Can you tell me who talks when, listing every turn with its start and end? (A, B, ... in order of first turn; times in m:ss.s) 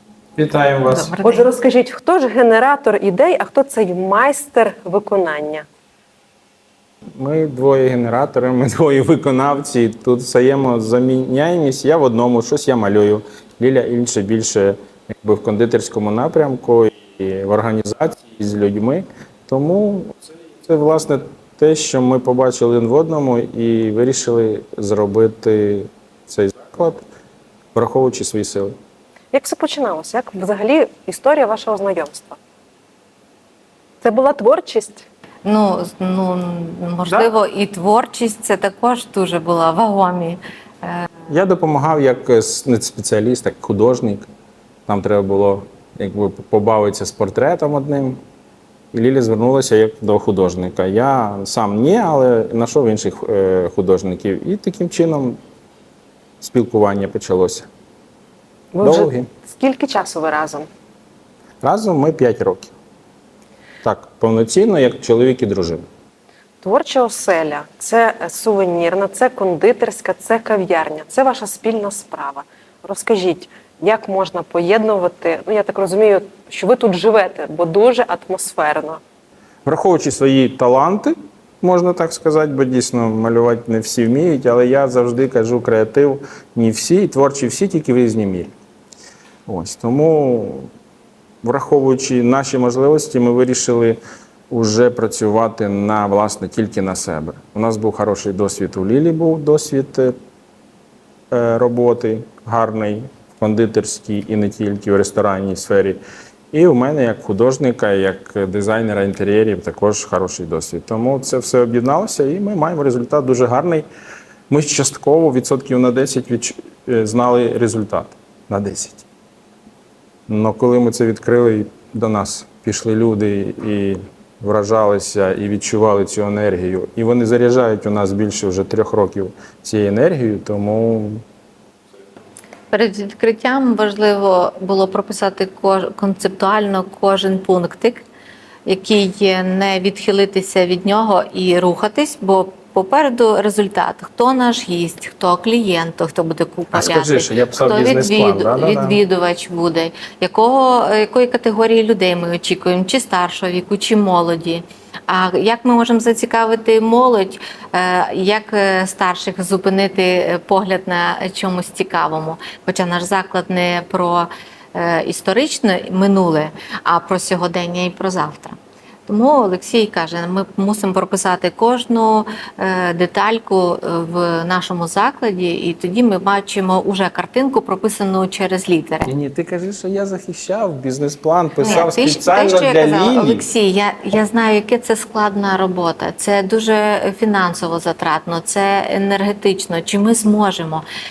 0:00.4-0:01.1 A
0:00.9-0:01.5 B
0:01.2-0:05.7 C
0:07.2-0:27.0 A
0:27.8-0:28.8 A
0:29.3-0:32.4 C
0:34.0-0:35.0 C
0:35.4-0:41.1 B
0:41.3-0:44.3 A
0:44.9-0:48.2 A
0:48.9-0:55.4 A
0:56.4-0:57.7 A
0:58.7-1:00.7 C
0:58.8-0:59.3 A
1:01.6-1:02.7 A
1:03.8-1:05.9 A
1:06.6-1:19.0 C
1:19.6-1:28.5 A
1:29.5-1:30.7 A
1:31.4-1:34.0 A
1:34.5-1:40.2 A
1:41.3-1:46.0 A
1:46.5-1:53.9 A
1:54.5-1:59.1 A
2:00.3-2:11.2 A
2:12.7-2:18.0 B
2:18.7-2:48.6 B
2:26.7-2:29.0 A
2:49.1-2:59.1 B
2:59.0-3:03.4 A
3:01.6-3:10.8 B